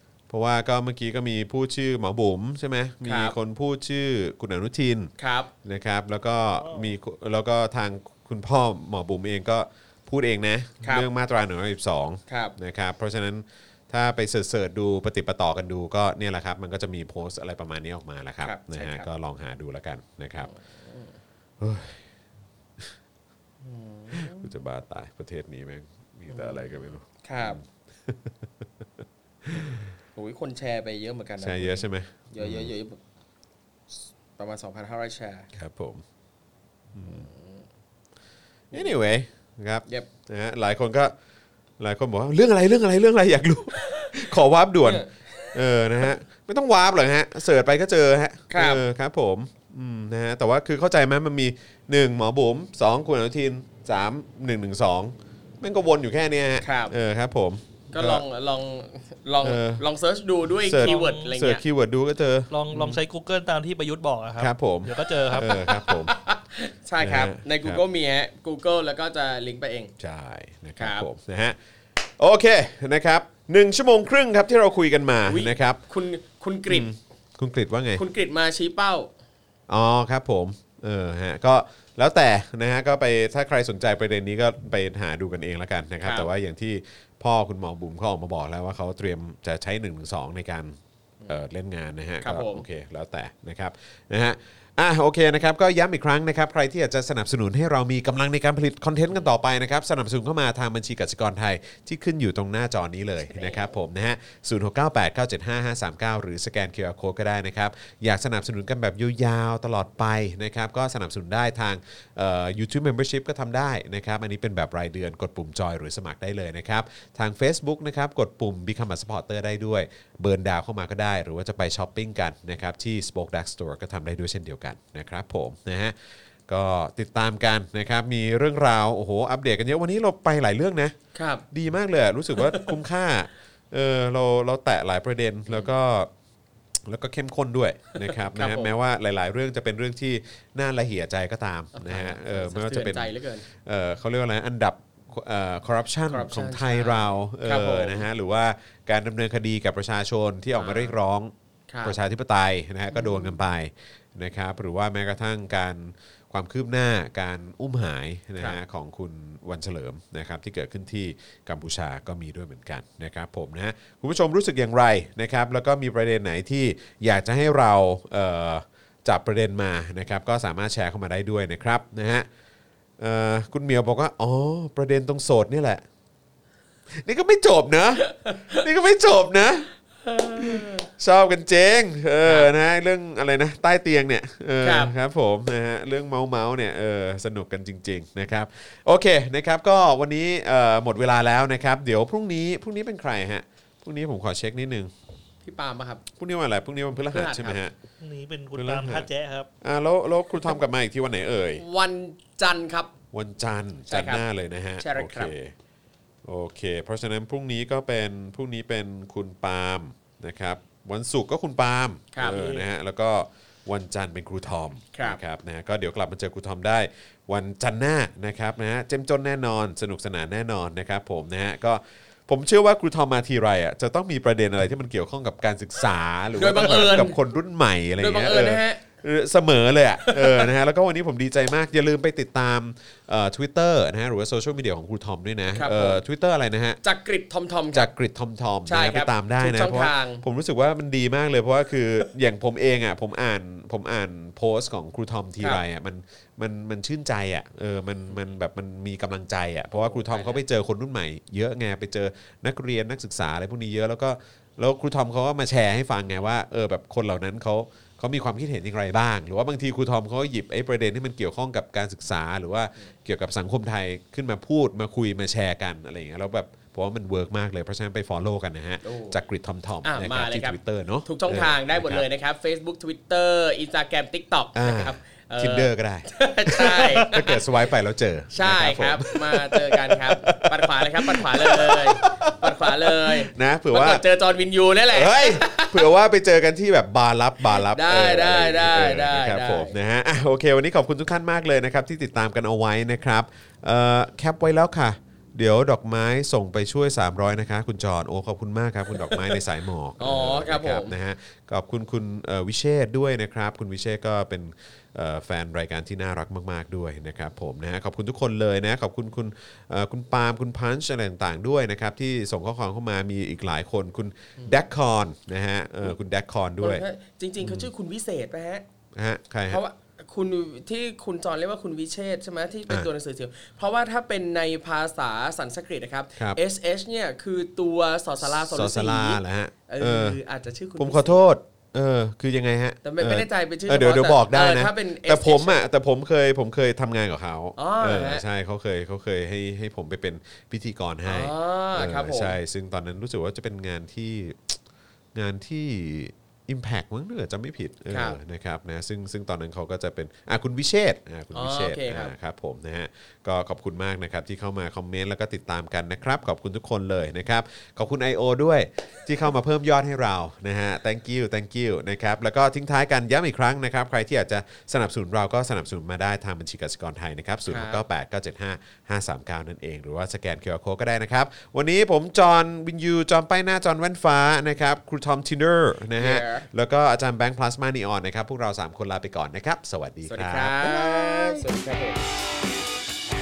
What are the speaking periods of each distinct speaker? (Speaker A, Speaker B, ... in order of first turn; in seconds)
Speaker A: 0.3-5.1, 5.6-20.5, 21.6-22.0, 24.1-28.6, 29.4-29.8, 31.4-32.7, 35.5-36.0, 36.9-37.3, 38.7-41.1, 41.8-58.2, 59.4-59.8, 60.6-63.0, 64.4-66.2, 67.0-67.8, 70.0-75.8, 76.7-78.0, 79.7-125.9, 126.5-130.9, 131.5-136.1, 136.8-151.3, 151.8-172.3, 173.0-175.8, 176.9-179.7, 180.4-194.9, 196.1-197.7, 198.6-199.1, 199.6-201.6, 203.1-205.5, 206.2-236.8, 237.7-272.1, 274.5-284.0, 284.9-316.8, 317.4-317.7, 318.9-319.6, 328.2-330.2, 330.8-344.6, 345.1-381.5
Speaker B: 3.0-3.3, 5.2-5.5, 10.8-11.1, 12.3-12.5, 18.4-19.1, 20.4-21.2, 23.6-24.5, 26.3-27.6, 29.5-33.0, 34.4-35.5, 37.0-37.6, 43.9-44.2, 44.8-45.5, 48.5-48.8, 56.6-56.9, 57.9-61.6, 65.4-69.9, 70.8-71.1, 75.3-76.9, 78.0-79.1, 86.0-86.3, 92.2-92.6, 103.3-103.7, 131.1-131.4, 132.3-132.7, 137.9-138.7, 141.7-143.4, 146.1-148.1, 150.6-150.9, 151.7-152.0, 152.9-153.4, 178.2-178.6, 180.0-180.9, 182.2-182.5, 184.6-184.9, 195.4-196.0, 197.1-197.6, 201.6-202.9, 203.9-204.2, 204.8-205.3, 212.1-212.7, 226.3-227.2, 228.0-228.8, 230.0-230.5, 235.5-236.0, 236.8-237.9, 238.7-240.2, 249.7-250.4, 268.8-269.2, 269.8-277.4, 278.3-285.9, 287.4-289.7, 298.9-299.4, 300.0-300.9, 316.6-318.6, 319.5-331.2, 332.8-335.6, 337.6-338.2, 341.1-342.4, 347.9-348.2, 351.3-352.1, 367.5-367.8, 376.0-376.5, 380.1-382.2
Speaker C: 60.8-61.4, 62.5-65.6, 198.0-199.5